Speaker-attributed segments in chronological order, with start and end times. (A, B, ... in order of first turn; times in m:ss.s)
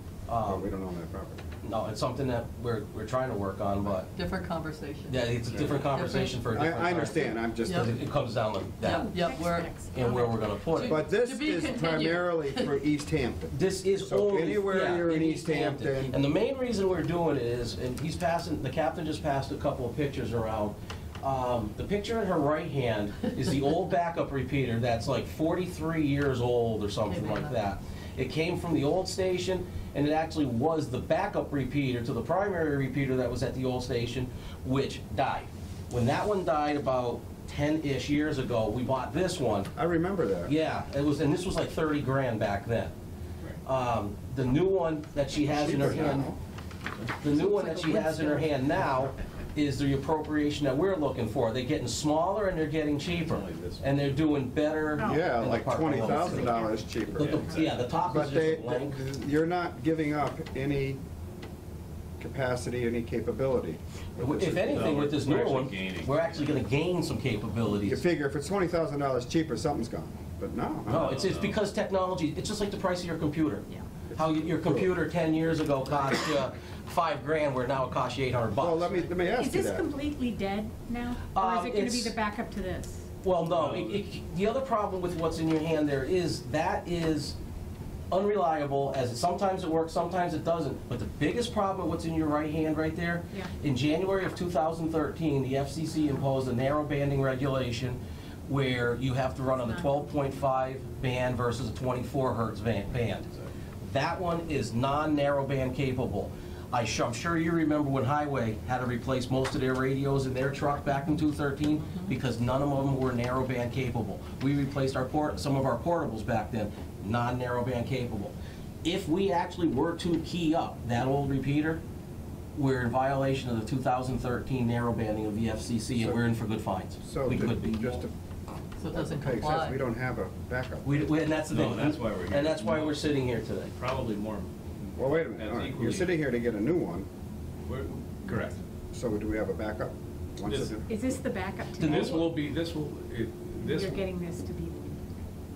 0:00.3-0:00.7 A
0:00.4-0:01.4 B
0:01.6-0:04.1 A
0:04.1-0:06.4 C
0:05.1-0:09.2 A
0:06.5-0:08.0 B
0:07.7-0:07.9 C
0:08.8-0:09.7 C
0:08.9-0:10.6 D
0:09.9-0:11.0 A
0:10.7-0:12.8 C
0:10.8-0:16.2 B
0:13.5-0:39.7 A
0:27.1-0:27.5 C
0:39.8-0:40.5 B
0:40.4-0:42.9 A
0:43.6-0:46.3 A
0:45.4-0:46.4 B
0:47.2-0:59.0 A
0:47.5-0:48.5 D
0:53.1-0:54.1 E
0:55.0-0:55.3 D
0:55.0-0:57.6 B
0:55.9-0:57.7 D
0:57.2-0:57.9 E
0:58.1-1:01.0 B
1:02.2-1:05.0 B
1:04.2-1:08.0 A
1:04.7-1:06.6 E
1:07.8-1:11.0 B
1:10.9-1:11.6 E
1:10.9-1:19.1 A
1:14.2-1:14.9 B
1:18.6-1:19.9 B
1:19.4-1:23.1 D
1:21.3-1:22.1 A
1:23.2-1:27.4 A
1:23.5-1:24.0 E
1:28.1-1:43.3 A
1:43.8-2:01.8 A
2:02.6-2:08.0 A
2:06.0-2:06.2 B
2:07.0-2:08.1 B
2:08.8-2:09.8 C
2:08.9-2:11.1 B
2:10.8-2:13.7 A
2:11.5-2:13.1 E
2:13.7-2:16.3 E
2:15.0-2:17.1 B
2:17.7-2:18.6 E
2:18.9-2:20.9 B
2:20.5-2:20.8 E
2:20.9-2:22.3 D
2:21.8-2:22.3 A
2:21.8-2:24.0 E
2:23.6-2:25.1 D